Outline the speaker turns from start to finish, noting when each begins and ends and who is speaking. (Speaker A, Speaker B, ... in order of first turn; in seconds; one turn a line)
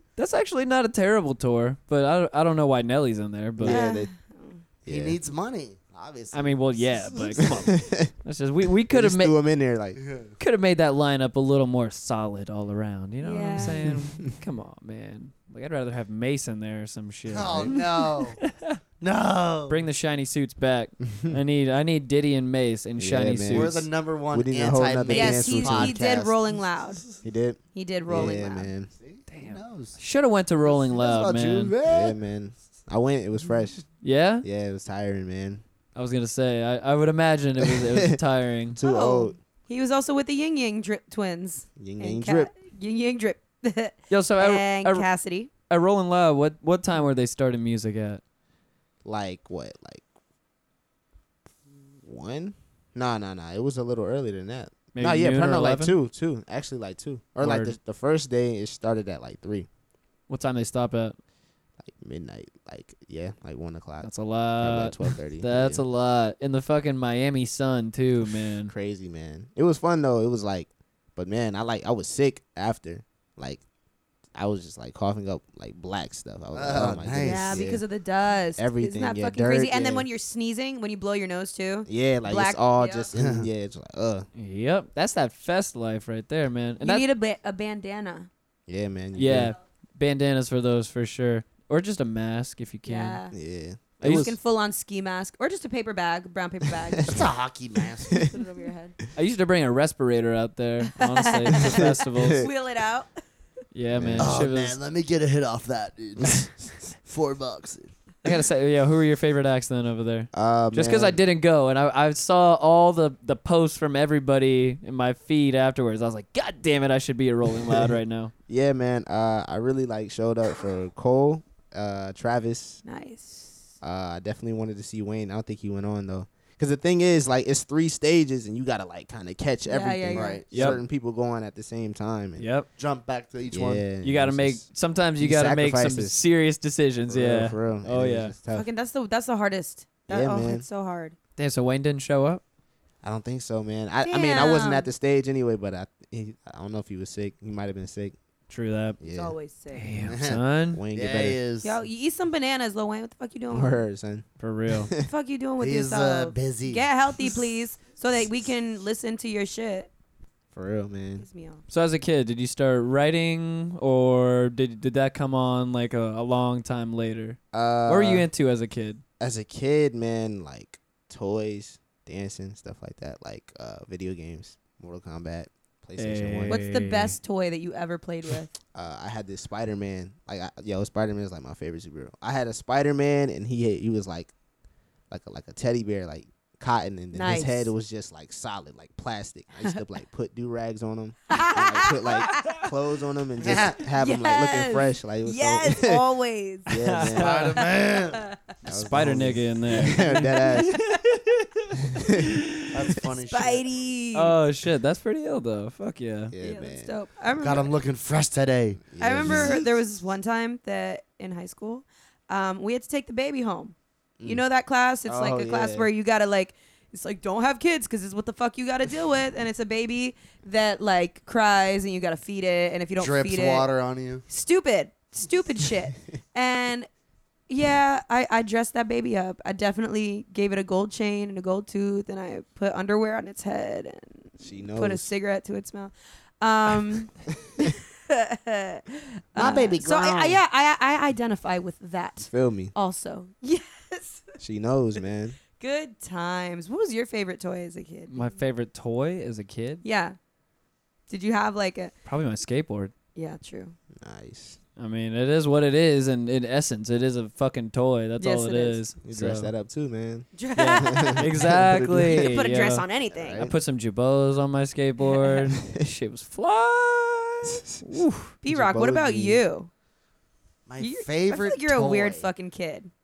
Speaker A: 0.2-3.8
Speaker B: 3.6-4.1
Speaker C: 3.6-4.6
Speaker B: 4.8-5.2
Speaker D: 4.8-7.5
Speaker A: 6.3-9.3
Speaker B: 7.4-8.1
Speaker B: 8.9-10.0
Speaker D: 10.0-10.3
Speaker A: 10.4-17.9
Speaker C: 13.2-13.9
Speaker D: 17.3-18.4
Speaker A: 18.4-18.8
Speaker D: 19.0-19.8
Speaker A: 19.7-23.9
Speaker B: 23.0-23.7
Speaker D: 23.5-27.1
Speaker B: 24.3-26.3
Speaker C: 25.1-27.0
Speaker B: 27.2-28.9
Speaker C: 27.7-28.7
Speaker D: 28.1-28.4
Speaker D: 28.9-30.0
Speaker A: 29.3-31.7
Speaker D: 30.6-32.1
Speaker B: 31.8-33.8
Speaker A: 34.0-34.4
Speaker B: 34.4-35.6
Speaker A: 35.9-38.8
Speaker B: 37.6-38.2
Speaker B: 38.7-39.3
Speaker C: 38.8-45.5
Speaker B: 41.8-42.5
Speaker A: 44.1-45.1
Speaker A: 45.7-48.2
Speaker B: 49.0-50.0
Speaker B: 52.0-59.7
Speaker A: 54.9-55.9
Speaker A: 57.4-57.7
Speaker A: 60.3-61.2
Speaker B: 61.8-65.8
Speaker A: 64.0-68.7
Speaker B: 68.7-73.6
Speaker B: 74.3-77.8
Speaker D: 76.5-77.6
Speaker C: 77.2-83.1
Speaker B: 78.6-80.1
Speaker B: 81.9-84.2
Speaker D: 83.2-83.5
Speaker A: 84.3-87.0
Speaker C: 86.8-88.3
Speaker B: 88.7-89.5
Speaker A: 89.2-93.2
Speaker C: 92.8-93.3
Speaker B: 93.3-94.2
Speaker A: 94.0-94.3
Speaker C: 94.0-97.2
Speaker D: 97.0-98.3
Speaker C: 98.2-99.0
Speaker A: 99.1-102.5
Speaker B: 101.6-102.5
Speaker C: 102.3-103.1
Speaker A: 103.7-104.8
Speaker B: 103.9-104.4
Speaker D: 104.2-107.9
Speaker A: 108.2-118.3
Speaker B: 110.3-111.2
Speaker B: 117.5-117.9
Speaker B: 118.5-122.8
Speaker C: 122.8-123.7
Speaker B: 123.8-132.4
Speaker C: 129.6-130.4
Speaker D: 130.1-130.8
Speaker A: 130.5-130.8
Speaker A: 132.4-132.7
Speaker D: 132.8-133.8
Speaker B: 133.5-136.2
Speaker A: 134.0-138.3
Speaker B: 137.1-138.7
Speaker C: 138.5-141.1
Speaker B: 140.1-140.6
Speaker A: 141.4-142.4
Speaker B: 143.0-148.2
Speaker C: 144.0-144.9
Speaker A: 148.5-149.0
Speaker B: 149.0-149.3
Speaker C: 149.0-149.9
Speaker A: 149.7-150.8
Speaker D: 150.0-150.4
Speaker B: 150.7-151.4
Speaker D: 150.9-151.7
Speaker C: 151.6-153.8
Speaker B: 153.5-154.3
Speaker A: 154.4-154.9
Speaker B: 154.8-155.1
Speaker C: 155.1-159.9
Speaker D: 155.6-157.4
Speaker B: 160.5-161.2
Speaker C: 161.2-161.6
Speaker A: 161.7-169.0
Speaker B: 167.5-168.3
Speaker B: 169.2-176.6
Speaker A: 176.0-177.2
Speaker C: 176.5-178.5
Speaker B: 178.7-184.3
Speaker B: 185.1-196.1
Speaker C: 187.1-187.7
Speaker C: 191.3-192.7
Speaker D: 193.4-193.8
Speaker C: 193.9-196.7
Speaker B: 196.7-197.6
Speaker A: 196.8-197.5
Speaker D: 197.1-198.2
Speaker B: 198.6-200.8
Speaker A: 198.7-201.5
Speaker B: 201.9-202.4
Speaker A: 202.2-202.7
Speaker D: 202.7-203.6
Speaker C: 203.3-204.3
Speaker A: 204.1-206.3
Speaker B: 206.3-207.7
Speaker C: 206.4-207.7
Speaker D: 207.4-209.7
Speaker B: 208.9-209.6
Speaker C: 209.0-223.7
Speaker B: 215.1-215.9
Speaker D: 223.0-224.2
Speaker C: 224.3-226.9
Speaker C: 227.5-244.3
Speaker B: 234.4-235.1
Speaker B: 239.3-240.4
Speaker B: 242.2-242.7
Speaker B: 244.4-245.4
Speaker C: 245.6-248.3
Speaker A: 248.1-249.8
Speaker C: 249.8-250.2
Speaker C: 251.1-251.9
Speaker A: 252.1-252.9
Speaker C: 253.1-253.7
Speaker B: 254.0-254.6
Speaker A: 254.8-259.5
Speaker C: 258.2-258.8
Speaker B: 259.0-262.4
Speaker C: 260.3-261.2
Speaker A: 260.5-262.8
Speaker C: 262.1-263.5
Speaker B: 263.1-263.5
Speaker A: 263.4-268.3
Speaker B: 267.4-267.8
Speaker C: 268.4-269.7
Speaker B: 268.5-269.4
Speaker D: 270.7-272.3
Speaker C: 270.8-272.9